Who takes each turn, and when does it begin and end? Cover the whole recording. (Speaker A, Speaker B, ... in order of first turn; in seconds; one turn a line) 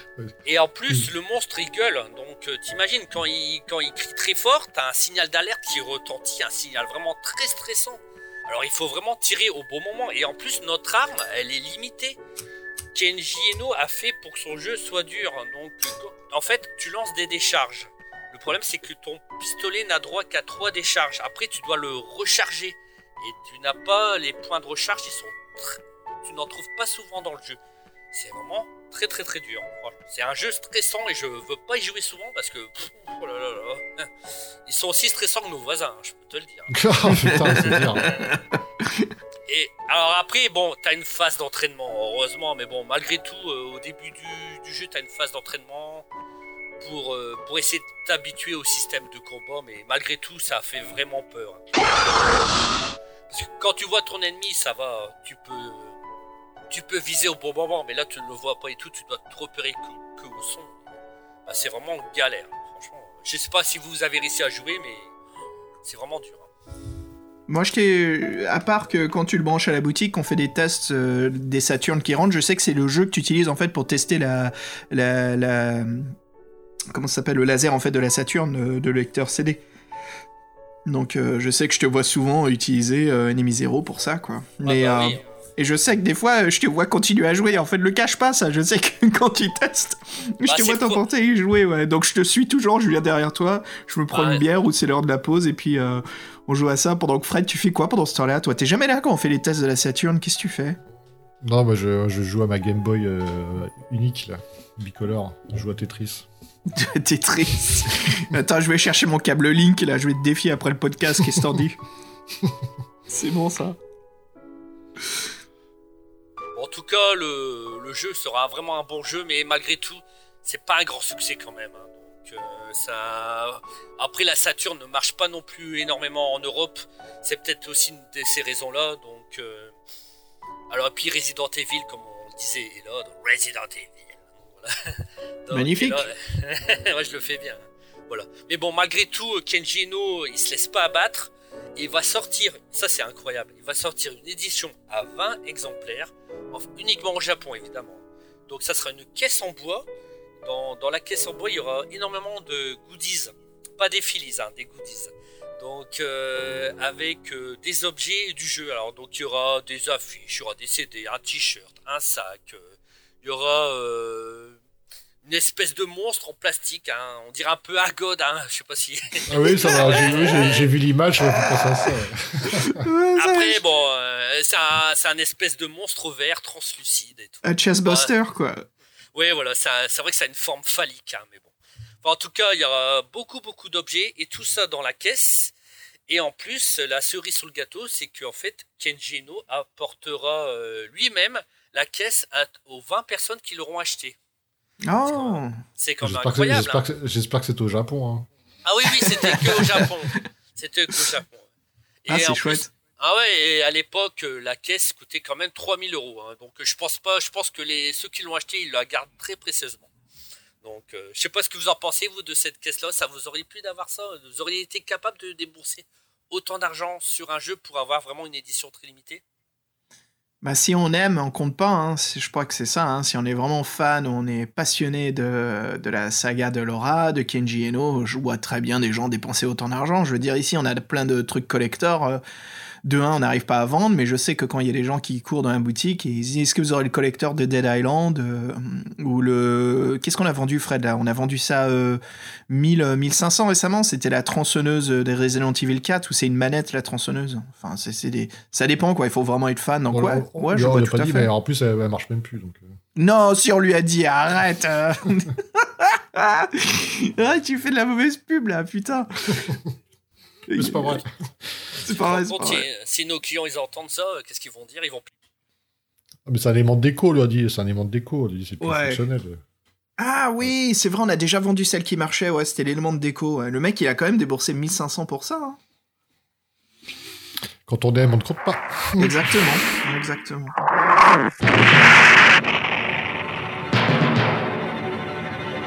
Speaker A: 0.4-12.2
Speaker A: 12.9-27.6
Speaker A: 28.1-34.1
Speaker A: 34.6-36.9
Speaker B: 36.7-38.1
Speaker C: 37.1-39.1
Speaker A: 37.6-38.4
Speaker A: 39.5-46.0
Speaker A: 46.8-52.4
Speaker A: 53.3-55.9
Speaker A: 56.7-60.9
Speaker A: 61.5-65.1
Speaker A: 65.8-66.5
Speaker C: 67.5-76.1
Speaker C: 76.9-79.6
Speaker C: 80.8-100.8
Speaker A: 84.6-85.2
Speaker A: 90.4-91.0
Speaker A: 94.1-94.4
Speaker B: 101.4-106.3
Speaker C: 106.7-111.8
Speaker C: 113.1-113.8
Speaker A: 116.5-129.7
Speaker A: 130.7-149.9
Speaker C: 135.5-136.1
Speaker A: 150.4-164.6
Speaker A: 165.2-170.7
Speaker B: 169.3-172.8
Speaker C: 169.7-170.2
Speaker C: 171.2-171.9
Speaker C: 172.5-173.6
Speaker A: 173.2-178.1
Speaker C: 177.4-178.7
Speaker A: 179.1-185.5
Speaker A: 186.1-194.2
Speaker C: 194.8-195.6
Speaker A: 195.0-196.8
Speaker B: 196.0-198.3
Speaker A: 198.6-201.5
Speaker C: 199.0-200.2
Speaker A: 202.0-209.9
Speaker C: 202.1-202.7
Speaker A: 210.6-219.2
Speaker C: 220.4-232.2
Speaker C: 232.8-251.3
Speaker B: 249.9-252.7
Speaker C: 252.9-259.5
Speaker C: 260.5-261.0
Speaker B: 260.5-261.1
Speaker C: 261.8-262.6
Speaker A: 261.8-265.1
Speaker B: 266.2-269.4
Speaker C: 268.6-269.0
Speaker C: 270.0-275.6
Speaker B: 277.7-279.2
Speaker C: 279.0-280.6